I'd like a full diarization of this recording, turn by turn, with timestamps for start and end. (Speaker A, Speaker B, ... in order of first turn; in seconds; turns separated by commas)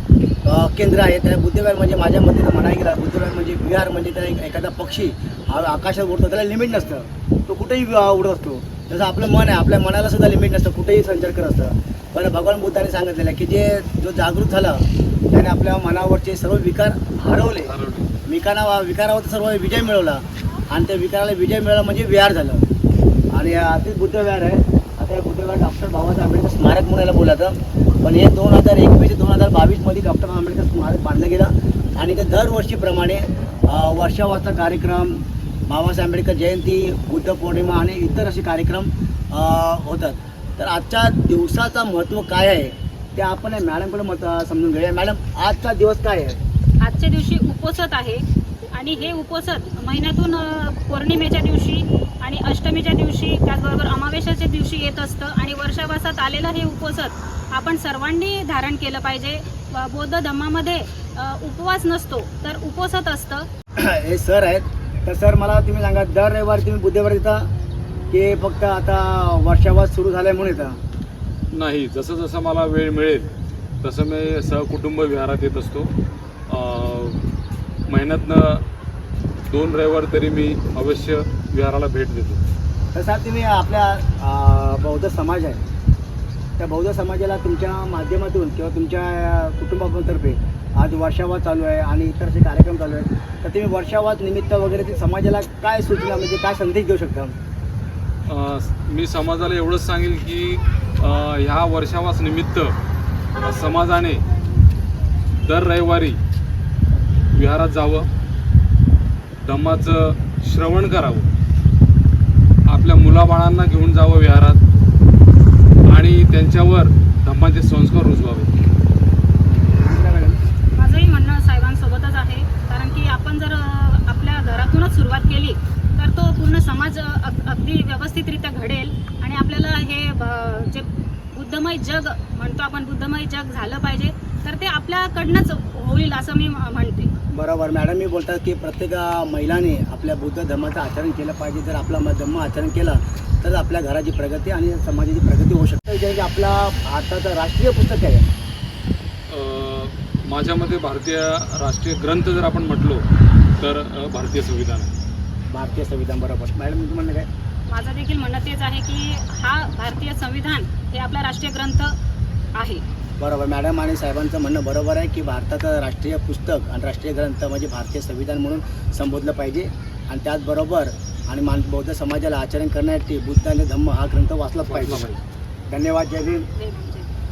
Speaker A: 0.4-17.7, Speaker B: 17.7-18.2, Speaker A: 18.2-22.6, Speaker A: 23.3-46.4, Speaker C: 46.8-63.5, Speaker A: 63.8-67.5, Speaker A: 68.1-70.8, Speaker B: 71.5-75.9, Speaker B: 76.5-77.2, Speaker B: 77.9-78.6, Speaker B: 79.5-82.4, Speaker A: 82.9-85.6, Speaker A: 86.6-97.3, Speaker B: 98.3-102.8, Speaker B: 103.4-104.2, Speaker B: 105.3-106.2, Speaker B: 107.3-108.1, Speaker B: 109.4-111.3, Speaker B: 112.7-114.6, Speaker B: 115.9-118.5, Speaker A: 119.8-120.4, Speaker C: 120.7-137.1, Speaker A: 137.3-148.3, Speaker B: 149.3-153.0, Speaker B: 153.6-154.9, Speaker A: 155.5-157.3, Speaker C: 157.7-161.9, Speaker C: 162.6-162.8, Speaker A: 163.2-175.1, Speaker B: 174.6-175.2, Speaker A: 175.7-176.5, Speaker C: 176.6-177.1